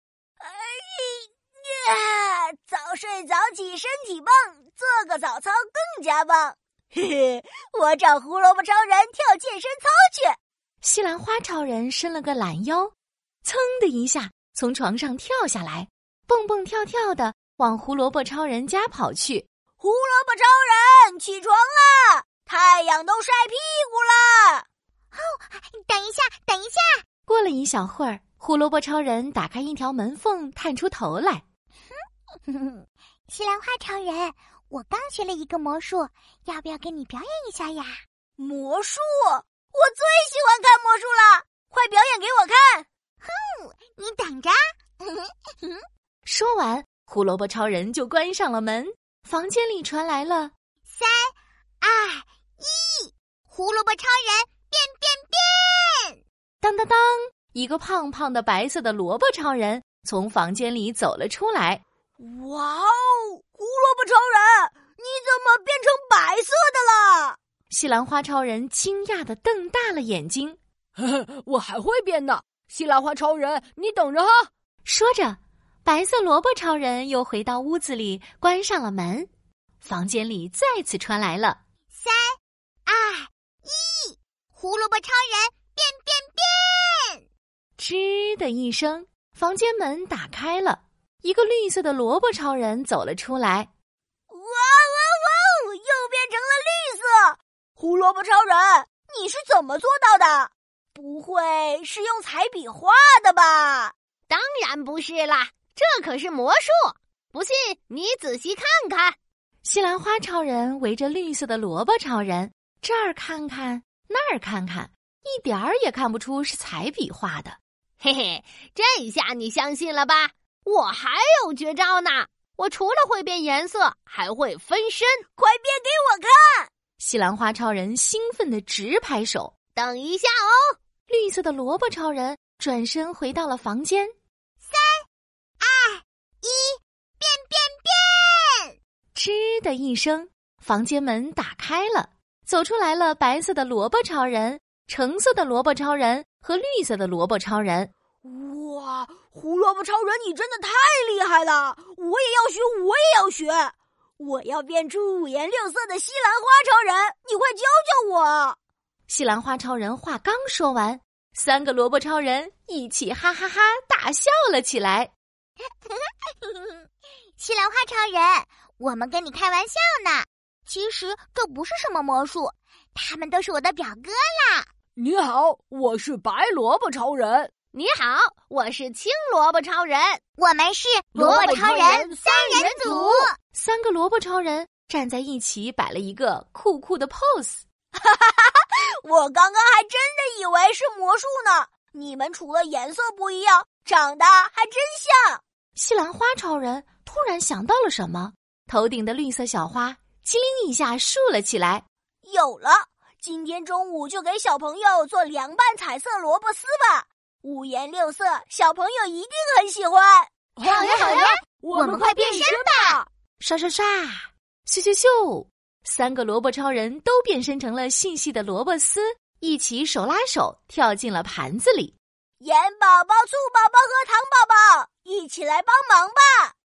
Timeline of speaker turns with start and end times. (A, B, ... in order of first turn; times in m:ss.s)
0:00.4-0:10.4 A
0:10.8-0:12.9 B
0:13.4-0:19.5 B
0:19.8-0:24.6 A
0:25.1-0:27.0 C
0:27.3-0:31.4 B
0:32.5-0:38.0 C
0:38.4-0:42.8 A
0:43.2-0:45.8 C
0:46.2-0:50.5 B
0:50.9-0:56.2 C
0:56.6-1:01.8 B
1:02.2-1:07.4 A
1:07.7-1:10.6 B
1:11.0-1:14.5 D
1:14.8-1:19.3 B
1:19.8-1:21.6 B
1:21.9-1:27.2 C
1:27.8-1:33.7 B
1:34.3-1:43.9 A
1:44.3-1:49.2 E
1:49.6-1:57.6 B
1:58.0-2:05.2 E
2:05.4-2:06.7 A
2:07.0-2:09.5 B
2:09.8-2:10.8 E
2:11.1-2:14.1 B
2:14.6-2:15.1 C
2:15.6-2:18.7 C
2:19.2-2:27.9 B
2:28.2-2:38.6 A
2:39.1-2:45.1 B
2:45.9-2:46.8 C
2:47.4-2:54.7 C
2:55.0-2:57.6 D
2:57.7-3:00.2 E
3:00.4-3:03.4 C
3:01.2-3:03.0 D
3:01.2-3:03.3 E
3:03.5-3:07.6 B
3:08.0-3:15.4 A
3:15.8-3:21.8 B
3:22.2-3:30.3 A
3:30.6-3:33.1 D
3:30.6-3:33.0 C
3:33.4-3:42.0 B
3:42.4-3:46.5 A